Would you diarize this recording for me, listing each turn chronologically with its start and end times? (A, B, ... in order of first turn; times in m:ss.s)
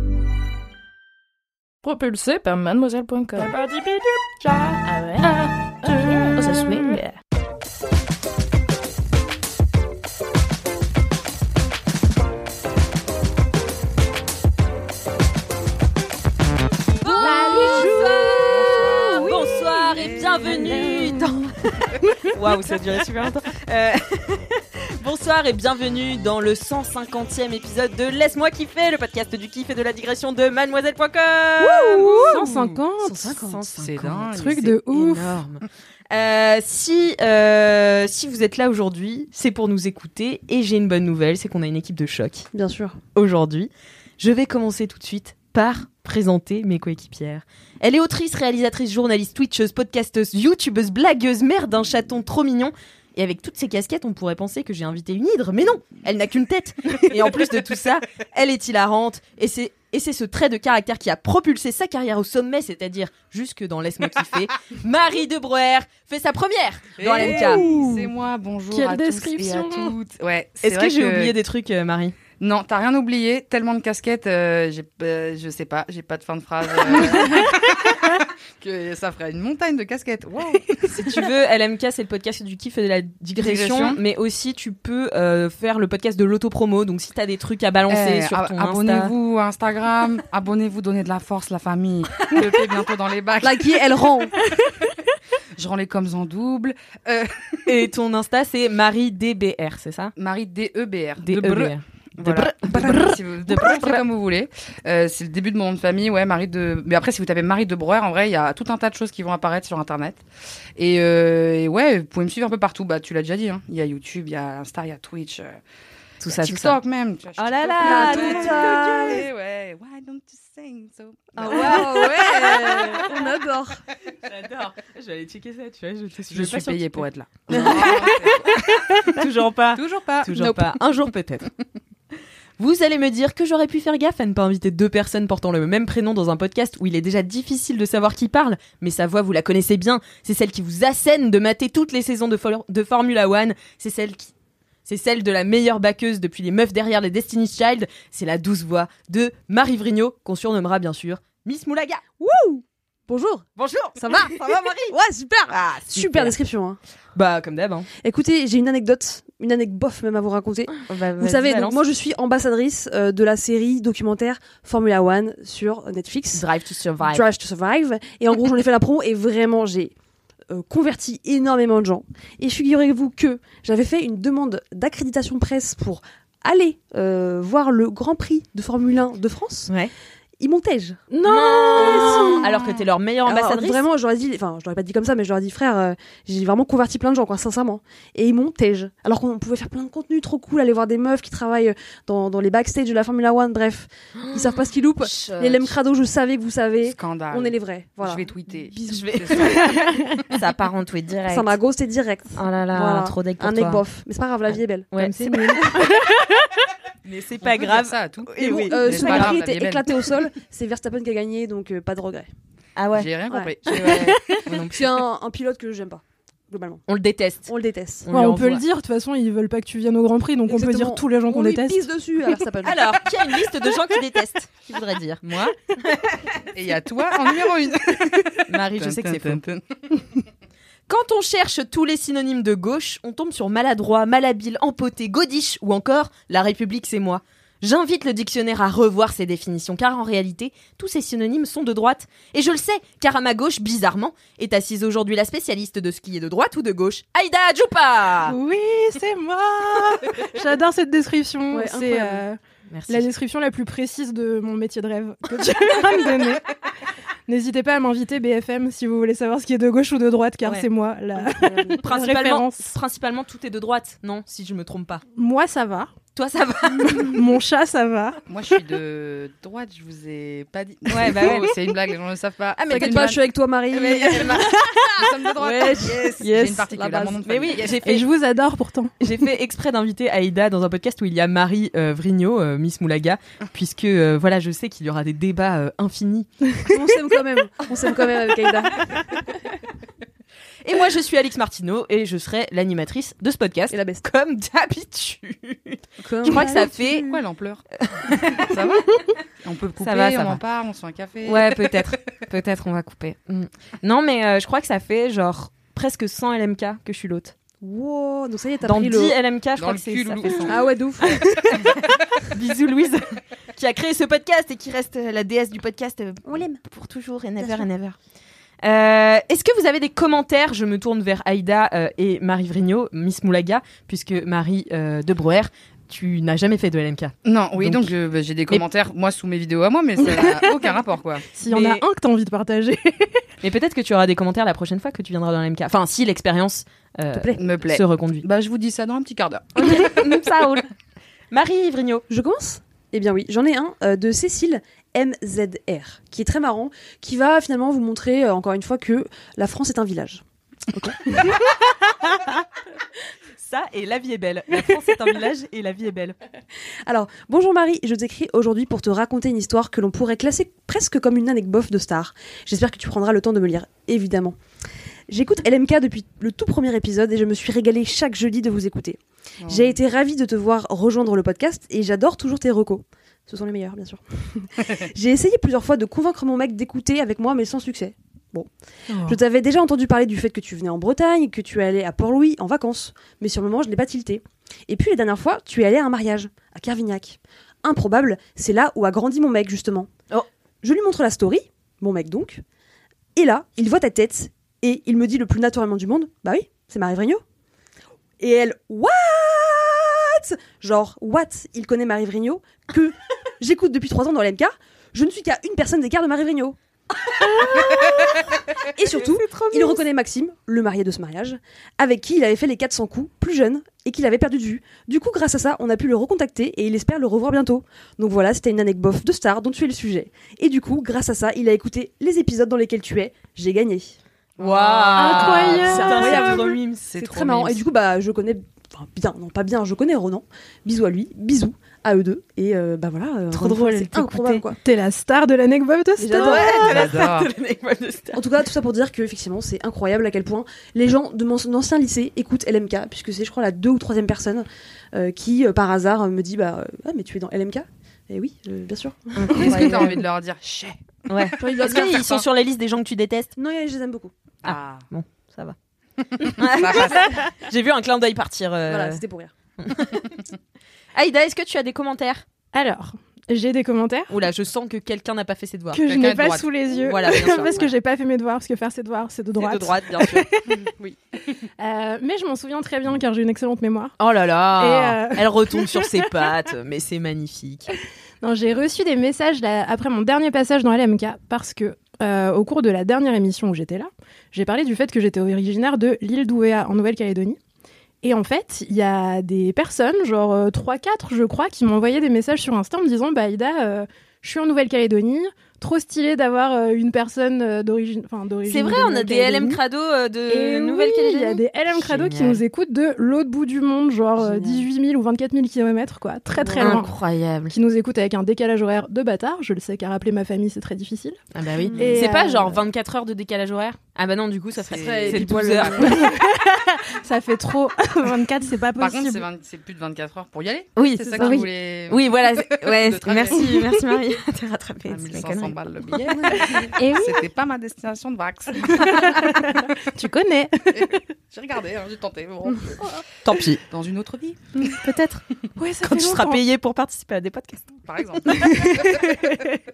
0:01.8-0:07.2 A
0:17.0-0:42.5 B
0:17.2-0:20.9 C
0:31.7-0:33.3 D
0:32.2-0:32.7 C
0:33.2-0:33.6 E
0:33.7-0:34.6 C
0:34.3-0:35.4 D
0:42.5-0:43.0 E
0:43.1-1:07.7 B
1:07.0-1:11.4 C
1:07.2-1:08.1 D
1:08.7-1:09.9 D
1:10.6-1:12.2 B
1:12.4-1:21.2 C
1:20.9-1:29.1 B
1:23.3-1:24.0 C
1:27.9-1:34.0 C
1:33.4-1:34.3 E
1:35.6-1:37.8 C
1:37.6-1:40.1 B
1:40.2-1:50.2 C
1:41.2-1:44.0 B
1:42.7-1:43.1 E
1:50.8-1:55.6 C
1:56.2-1:56.8 B
1:56.2-2:02.3 C
1:57.4-1:59.2 B
1:57.8-1:59.2 E
2:01.4-2:03.0 B
2:01.4-2:03.8 E
2:04.2-2:11.5 B
2:06.3-2:08.5 C
2:09.7-2:10.8 C
2:12.6-2:24.3 B
2:24.8-2:32.0 B
2:32.2-2:36.8 E
2:33.6-2:34.9 B
2:35.5-2:36.4 B
2:37.1-2:37.9 B
2:38.0-2:46.4 E
2:40.8-2:41.8 B
2:46.3-2:47.2 B
2:47.1-2:49.9 E
2:50.5-2:59.7 E
3:00.4-3:01.0 E
3:01.1-3:02.4 D
3:01.2-3:03.8 B
3:01.8-3:02.5 E
3:03.2-3:18.3 E
3:14.2-3:15.7 B
3:16.8-3:19.8 C
3:18.7-3:19.7 B
3:19.5-3:20.2 D
3:20.3-3:21.6 B
3:21.3-3:24.9 E
3:22.3-3:23.8 B
3:24.9-3:25.7 B
3:25.0-3:26.0 D
3:27.0-3:29.4 B
3:27.4-3:29.9 C
3:28.4-3:32.3 E
3:32.8-3:33.1 B
3:32.9-3:34.4 C
3:33.3-3:33.9 E
3:33.8-3:34.4 D
3:34.4-3:34.8 B
3:34.7-3:36.8 E
3:36.9-3:37.5 B
3:37.5-3:38.1 E
3:38.0-3:38.6 B
3:38.1-3:41.8 D
3:40.5-3:42.8 E
3:42.6-3:45.2 B
3:45.2-3:45.6 C
3:45.8-3:46.3 B
3:46.5-3:50.2 C
3:48.5-3:49.4 B
3:50.9-4:08.4 B
4:08.2-4:16.4 D
4:11.5-4:12.2 E
4:12.7-4:13.1 B
4:17.3-4:22.6 D
4:21.2-4:21.9 E
4:21.8-4:25.0 B
4:25.2-4:25.9 D
4:26.1-4:27.3 B
4:27.1-4:28.2 D
4:28.3-4:33.2 C
4:30.9-4:31.5 B
4:32.6-4:33.1 B
4:32.7-4:35.9 E
4:33.8-4:34.6 B
4:34.9-4:37.9 C
4:35.4-4:36.2 B
4:36.2-4:36.7 D
4:36.7-4:37.2 E
4:37.2-4:38.0 B
4:37.8-4:38.9 D
4:39.0-4:46.7 B
4:46.7-4:48.8 E
4:50.6-4:57.1 B
4:53.7-4:54.0 E
4:56.0-4:57.2 E
4:57.0-4:57.6 C
4:57.8-4:58.5 B
4:58.3-5:02.0 C
4:59.8-5:00.4 B
5:01.2-5:07.3 B
5:07.6-5:09.2 E
5:08.7-5:18.0 B
5:09.6-5:10.7 C
5:10.4-5:11.2 E
5:11.4-5:11.7 C
5:16.2-5:16.6 E
5:17.4-5:17.7 E
5:18.6-5:27.9 B
5:27.2-5:31.2 C
5:30.0-5:30.5 D
5:31.3-5:33.2 D
5:31.5-5:31.8 B
5:33.4-5:38.2 B
5:37.1-5:37.4 E
5:37.4-5:40.0 C
5:39.6-5:40.7 B
5:41.3-5:42.0 B
5:42.1-5:50.2 E
5:50.7-5:51.3 E
5:53.4-5:56.2 B
5:56.8-6:04.4 E
6:05.1-6:18.5 E
6:09.4-6:09.8 C
6:18.9-6:19.2 D
6:19.0-6:29.9 E
6:30.6-6:32.4 E
6:33.1-6:37.2 E
6:38.2-6:46.6 E
6:48.7-7:04.0 E
6:49.4-6:49.7 B
7:04.4-7:06.0 C
7:04.4-7:07.6 B
7:04.9-7:06.5 D
7:05.2-7:14.6 E
7:06.9-7:07.6 C
7:13.3-7:16.5 D
7:16.0-7:16.7 E
7:16.1-7:18.2 B
7:16.6-7:17.3 C
7:18.1-7:30.0 E
7:29.1-7:30.0 B
7:29.3-7:32.3 C
7:31.1-7:33.3 B
7:31.4-7:32.0 E
7:33.4-7:34.1 E
7:34.4-7:34.8 C
7:34.4-7:35.6 B
7:36.2-7:39.0 B
7:36.2-7:37.0 C
7:36.6-7:37.2 E
7:38.7-7:39.3 E
7:39.6-7:40.2 B
7:40.9-7:42.2 B
7:42.5-7:44.1 D
7:44.1-7:45.8 B
7:45.7-7:50.6 D
7:45.8-7:47.7 C
7:46.8-7:47.7 B
7:49.3-7:50.3 B
7:51.6-7:53.9 D
7:54.0-7:57.7 B
7:54.5-7:56.1 D
7:58.2-8:07.4 D
8:08.0-8:19.6 D
8:18.5-8:22.4 B
8:20.3-8:26.9 D
8:24.2-8:24.7 E
8:26.4-8:26.8 E
8:26.6-8:27.5 B
8:27.5-8:31.2 D
8:31.3-8:36.1 B
8:31.6-8:32.1 E
8:31.8-8:32.6 D
8:34.7-8:35.3 C
8:34.7-8:36.0 E
8:35.8-8:39.3 D
8:38.8-8:43.8 C
8:40.8-8:45.6 B
8:41.2-8:41.4 D
8:44.9-8:49.8 C
8:46.1-8:46.6 E
8:46.8-8:47.2 D
8:48.6-8:50.9 D
8:50.7-8:52.9 C
8:53.2-8:53.6 B
8:53.6-8:54.7 C
8:54.6-8:55.2 B
8:55.6-8:56.4 D
8:55.8-8:57.7 B
8:57.8-8:59.1 C
8:58.2-8:59.0 B
8:58.4-8:59.1 D